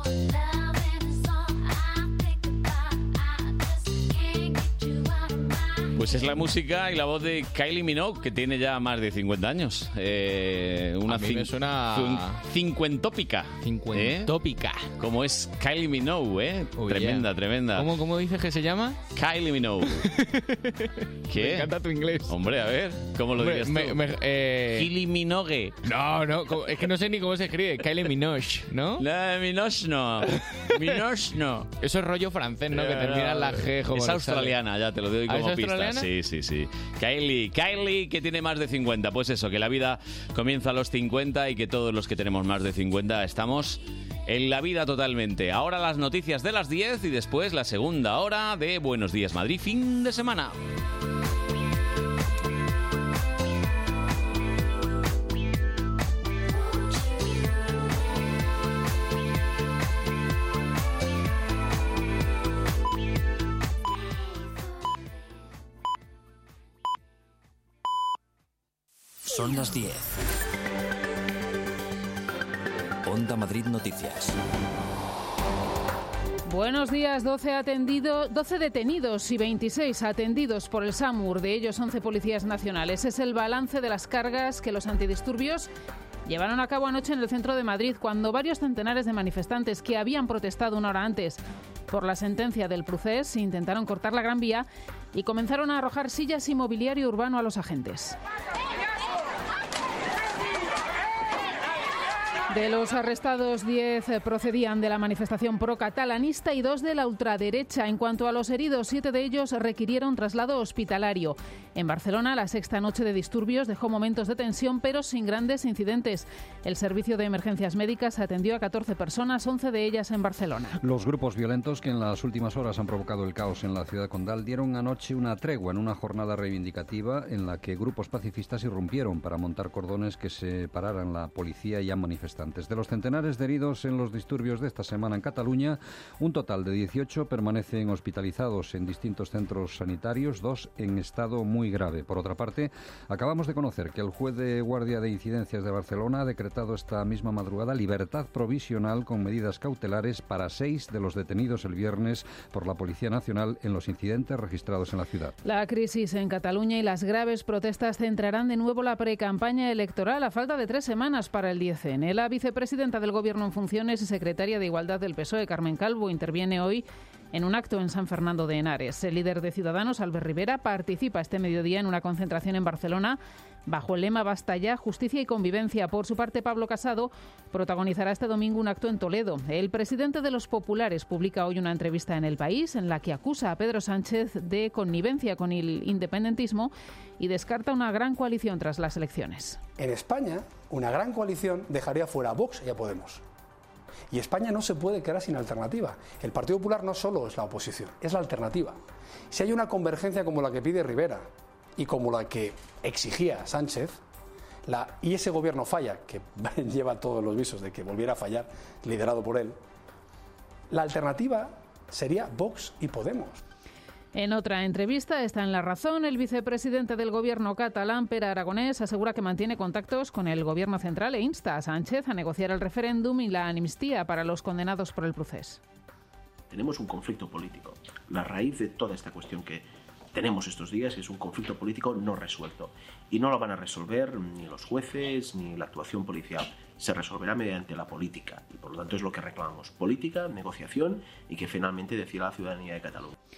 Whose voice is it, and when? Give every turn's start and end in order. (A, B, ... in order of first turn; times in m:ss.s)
0:06.0-0:14.3 A
0:11.1-0:12.4 B
0:13.6-0:14.9 B
0:15.0-0:17.9 A
0:16.8-0:19.0 B
0:19.1-0:20.1 A
0:20.0-0:22.4 B
0:21.3-0:21.7 A
0:22.3-0:24.0 A
0:23.4-0:24.9 B
0:24.7-0:25.8 A
0:25.8-0:29.0 B
0:29.0-0:31.7 A
0:31.8-0:34.6 B
0:32.7-0:50.6 A
0:35.3-0:36.1 B
1:09.3-1:10.1 C
1:13.0-1:14.4 C
1:16.5-1:25.7 D
1:26.3-1:38.2 D
1:42.5-2:00.8 D
2:00.8-2:35.4 E
2:35.4-3:09.6 D
3:09.8-3:13.2 F
3:14.1-3:18.8 F
3:19.3-3:21.3 F
3:21.8-3:24.0 F
3:24.7-3:29.6 F
3:30.7-3:33.4 F
3:34.1-3:45.6 D
3:46.5-4:03.1 G